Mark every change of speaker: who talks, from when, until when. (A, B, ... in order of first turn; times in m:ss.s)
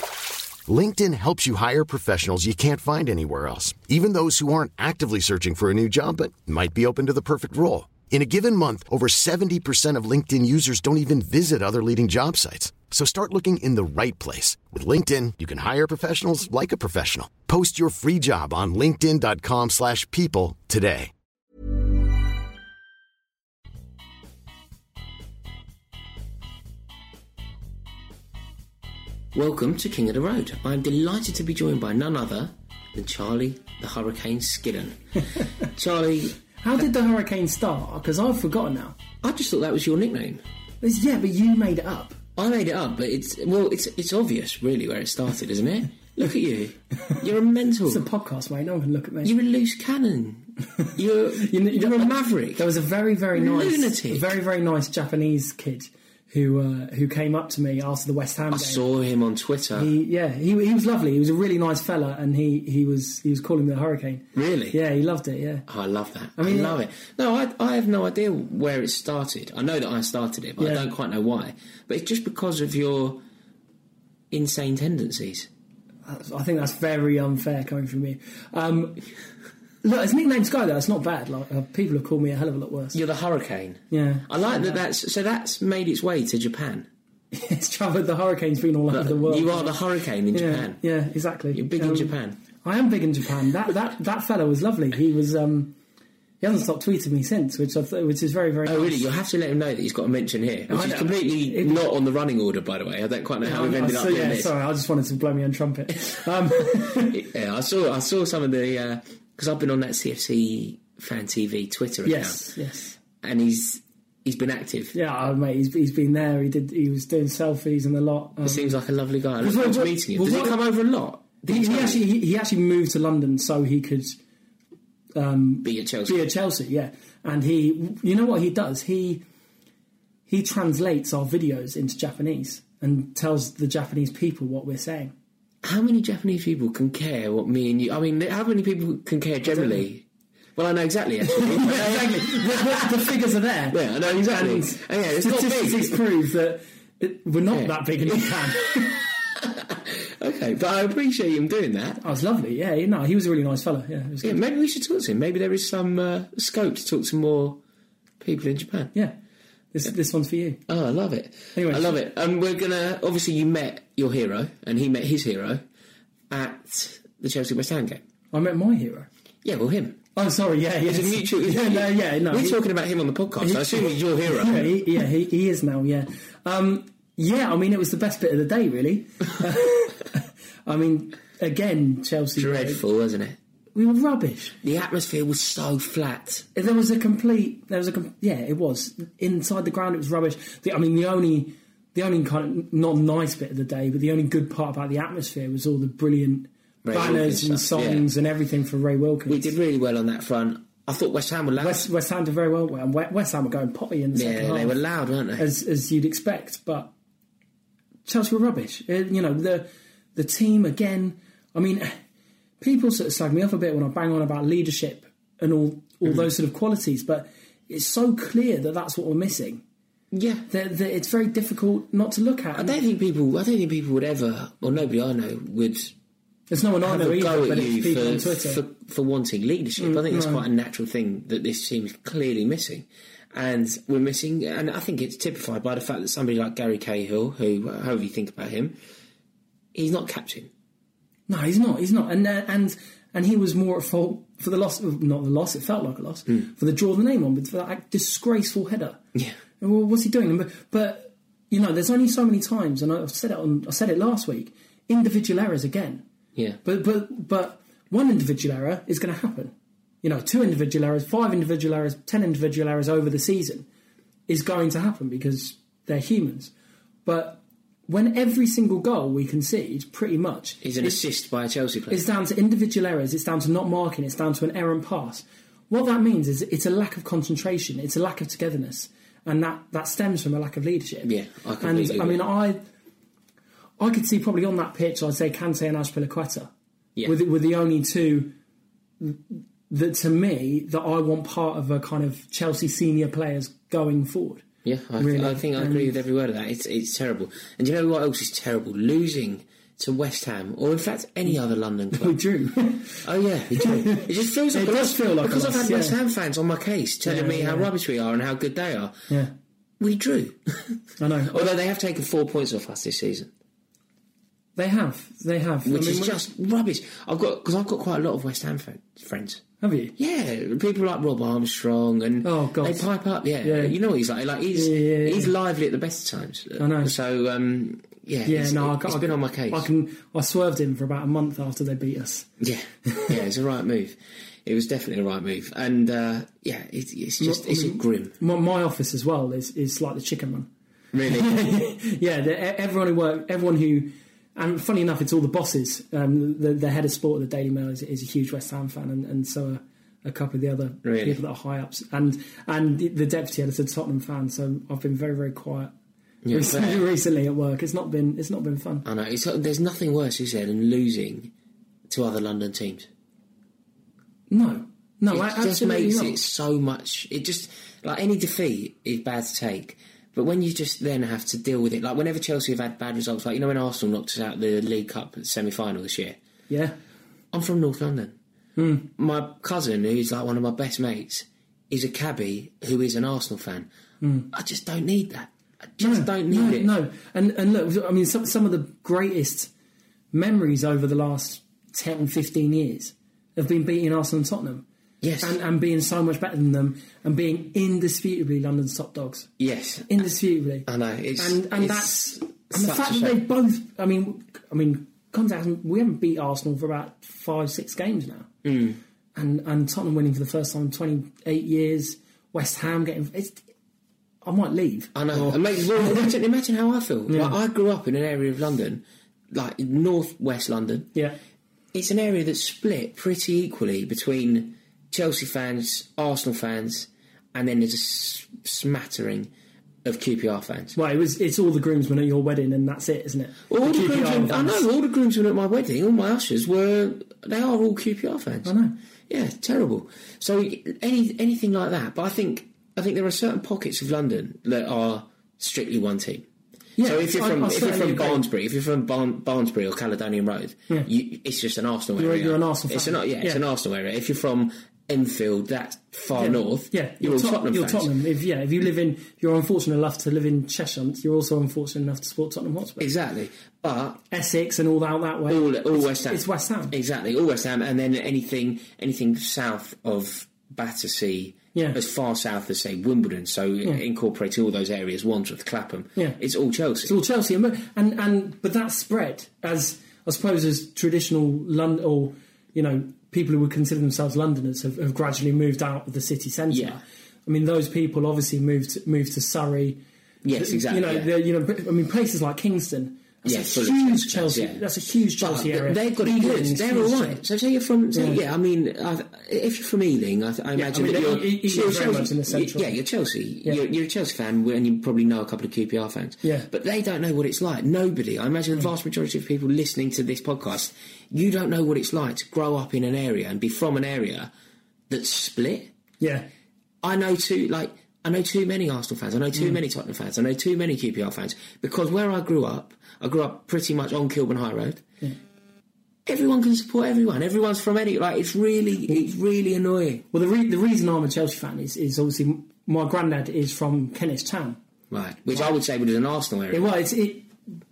0:00.7-0:21.1 A
0:29.3-0:36.4 B
0:36.6-0:39.0 C
0:39.2-0:40.4 B
0:40.8-0:42.2 C
0:42.4-0:48.1 B
0:47.9-0:49.3 C
0:49.2-0:52.7 B
0:50.8-0:58.8 C
0:53.3-0:54.3 B
0:58.5-0:59.9 B
0:59.8-1:05.6 C
1:04.3-1:04.8 B
1:05.7-1:13.2 B
1:06.4-1:06.8 C
1:10.6-1:10.9 C
1:14.3-1:15.5 B
1:16.0-1:19.0 C
1:19.8-1:23.0 C
1:22.9-1:26.9 B
1:23.9-1:24.8 C
1:27.3-1:29.8 C
1:28.9-1:30.8 B
1:30.3-1:35.8 C
1:31.5-1:32.4 B
1:36.4-1:39.0 C
1:38.6-1:44.5 B
1:40.7-1:41.8 C
1:43.4-1:47.2 C
1:46.8-1:52.5 B
1:52.0-1:53.0 C
1:53.2-1:54.9 B
1:54.9-1:58.8 C
1:58.4-2:02.0 B
1:59.4-2:00.5 C
2:01.5-2:04.2 C
2:05.2-2:09.2 C
2:05.6-2:06.3 B
2:10.3-2:15.1 C
2:15.6-2:20.0 B
2:19.4-2:19.8 C
2:20.6-2:23.1 B
2:21.2-2:29.0 C
2:23.7-2:26.0 B
2:27.5-2:32.0 B
2:32.0-2:34.4 C
2:34.2-2:37.6 B
2:38.2-2:38.9 B
2:39.7-2:40.6 C
2:40.7-2:45.6 B
2:41.5-2:42.0 C
2:46.3-2:48.0 B
2:48.3-2:49.1 C
2:49.4-2:50.0 B
2:50.1-2:52.6 C
2:50.8-2:54.8 B
2:53.4-3:02.8 C
3:02.4-3:03.4 B
3:03.7-3:04.6 C
3:04.6-3:06.5 B
3:06.5-3:19.5 C
3:16.8-3:18.1 B
3:19.3-3:21.9 B
3:21.6-3:24.8 C
3:24.1-3:25.5 B
3:25.4-3:26.9 C
3:28.0-3:32.0 C
3:32.6-3:39.6 C
3:40.1-3:40.4 B
3:40.5-3:42.8 C
3:42.5-3:45.9 B
3:46.5-3:48.6 C
3:46.8-3:58.8 B
3:49.8-3:50.4 C
3:59.7-4:00.5 B
4:01.3-4:09.0 C
4:09.6-4:16.0 C
4:16.6-4:23.6 C
4:24.3-4:26.5 C
4:27.0-4:30.9 C
4:30.6-4:32.0 B
4:31.9-4:42.6 C
4:41.0-4:42.2 B
4:43.8-4:46.5 C
4:47.0-4:48.3 C
4:49.0-4:54.4 C
4:54.6-5:02.2 B
4:55.0-4:55.9 C
5:01.9-5:03.0 C
5:03.0-5:09.0 B
5:03.6-5:06.0 C
5:07.0-5:07.7 C
5:09.8-5:10.8 B
5:11.0-5:11.5 C
5:11.3-5:13.3 B
5:14.6-5:16.2 C
5:15.6-5:19.4 B
5:19.6-5:19.9 C
5:20.0-5:29.7 B
5:22.2-5:22.9 C
5:23.4-5:23.7 C
5:24.5-5:25.3 C
5:26.6-5:26.9 C
5:28.2-5:32.3 C
5:32.4-5:38.1 B
5:32.8-5:33.1 C
5:37.2-5:40.5 C
5:40.9-5:41.3 B
5:41.0-5:55.7 C
5:50.8-5:51.2 B
5:56.2-5:56.8 B
5:56.3-5:58.8 C
5:58.8-6:01.3 B
6:01.9-6:02.9 B
6:04.3-6:06.2 C
6:05.1-6:16.2 B
6:16.5-6:16.8 C
6:17.3-6:18.1 B
6:18.6-6:18.9 C
6:19.0-6:23.7 B
6:24.0-6:24.3 C
6:24.3-6:26.7 B
6:25.8-6:29.5 C
6:30.1-6:34.6 C
6:35.0-6:35.4 B
6:35.2-6:39.3 C
6:39.4-6:40.0 B
6:39.9-6:40.7 C
6:40.7-6:43.2 B
6:41.2-6:48.3 C
6:48.4-6:48.8 B
6:49.2-6:53.4 C
6:54.2-6:56.1 C
6:54.9-7:00.9 B
6:57.1-6:57.4 C
7:01.7-7:09.3 B
7:09.8-7:10.8 B
7:10.7-7:14.7 C
7:13.5-7:18.5 B
7:18.4-7:18.7 C
7:19.1-7:26.2 B
7:26.8-7:28.2 C
7:26.8-7:37.9 B
7:32.0-7:33.4 C
7:36.1-7:42.9 C
7:42.8-7:44.0 B
7:44.1-7:46.7 C
7:45.3-7:57.0 B
7:51.5-7:51.8 C
7:56.8-8:09.8 C
8:06.5-8:06.8 B
8:10.2-8:11.1 B
8:10.4-8:17.2 C
8:13.2-8:14.6 B
8:15.2-8:34.3 B
8:17.9-8:18.2 C
8:20.5-8:22.7 C
8:34.9-8:35.7 B
8:36.0-8:36.3 C
8:36.8-8:44.8 B
8:46.0-8:50.0 B
8:50.1-8:54.6 C
8:54.9-8:56.7 B
8:56.5-8:57.3 C